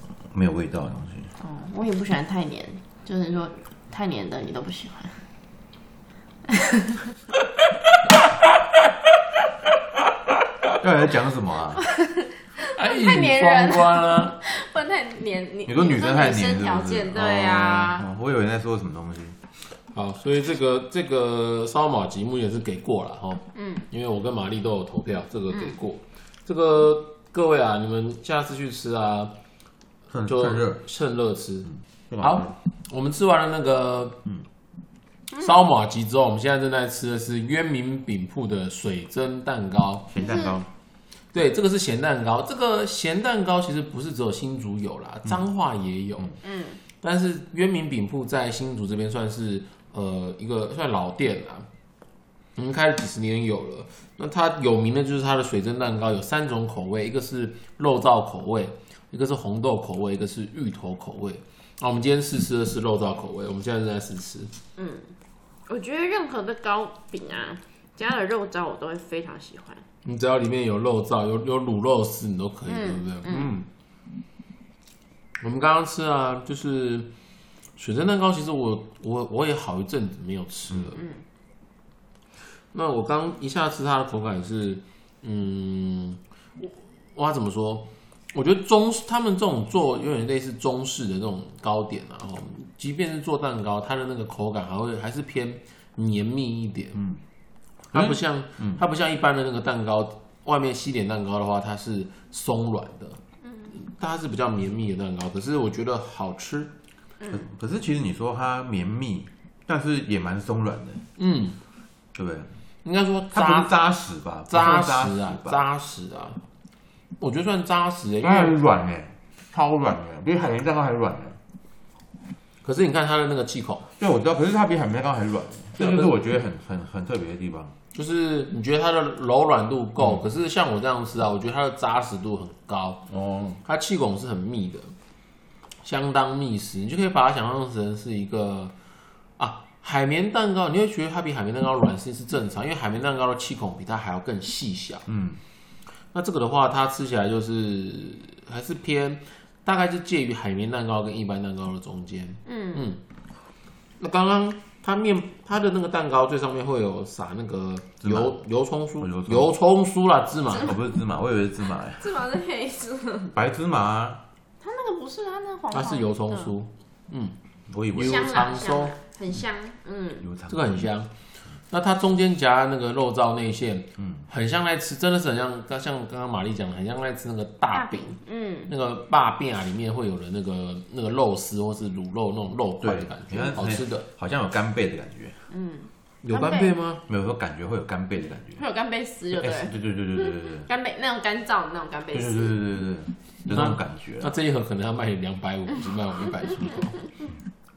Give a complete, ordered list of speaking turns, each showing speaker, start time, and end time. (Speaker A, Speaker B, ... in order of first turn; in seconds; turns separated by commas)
Speaker A: 0.3-1.3, Speaker B: 1.4-5.2, Speaker B: 6.5-7.0, Speaker A: 10.8-11.8, Speaker B: 11.8-18.1, Speaker C: 12.7-14.4, Speaker A: 15.7-19.4, Speaker C: 19.9-29.4, Speaker B: 23.6-23.9, Speaker A: 30.1-30.8, Speaker C: 30.3-34.2, Speaker A: 32.1-32.5, Speaker C: 35.4-40.1, Speaker A: 40.1-40.7, Speaker B: 40.2-40.6, Speaker C: 41.3-46.4, Speaker B: 46.4-46.8, Speaker C: 47.0-51.7, Speaker C: 52.6-64.5, Speaker B: 64.8-65.1, Speaker B: 65.7-69.8, Speaker C: 70.0-73.5, Speaker B: 72.7-73.5, Speaker A: 73.3-73.6, Speaker C: 75.4-77.1, Speaker C: 77.8-81.0, Speaker B: 81.0-81.2, Speaker C: 82.7-97.0, Speaker A: 97.9-98.8, Speaker C: 97.9-103.2, Speaker C: 103.7-106.7, Speaker A: 107.3-111.0, Speaker C: 111.2-111.6, Speaker A: 112.2-112.5, Speaker C: 112.8-113.7, Speaker A: 113.3-115.6, Speaker C: 114.5-116.4, Speaker C: 117.2-118.6, Speaker A: 118.2-121.4, Speaker C: 122.6-123.9, Speaker A: 124.0-127.7, Speaker C: 125.8-126.2, Speaker C: 127.9-133.1, Speaker A: 133.1-133.6, Speaker C: 133.6-134.9, Speaker C: 135.8-138.7, Speaker C: 139.4-145.1, Speaker A: 145.1-145.4, Speaker C: 146.1-153.0, Speaker B: 152.5-152.9, Speaker C: 154.0-160.7, Speaker A: 158.0-158.3, Speaker A: 159.0-159.5, Speaker A: 160.5-162.1, Speaker B: 162.0-163.3, Speaker A: 163.3-164.2, Speaker B: 164.6-166.5, Speaker C: 165.7-167.4, Speaker A: 167.7-168.4, Speaker C: 167.9-168.9, Speaker B: 167.9-170.3, Speaker A: 170.2-170.9, Speaker C: 170.5-171.1, Speaker C: 171.7-178.2, Speaker A: 174.0-174.3, Speaker B: 177.7-178.7, Speaker C: 178.7-184.1, Speaker A: 182.8-185.4, Speaker B: 185.5-186.8, Speaker C: 186.2-187.0, Speaker A: 187.1-188.6, Speaker B: 188.6-192.6, Speaker A: 189.3-190.7, Speaker A: 192.1-194.3, Speaker C: 193.5-197.1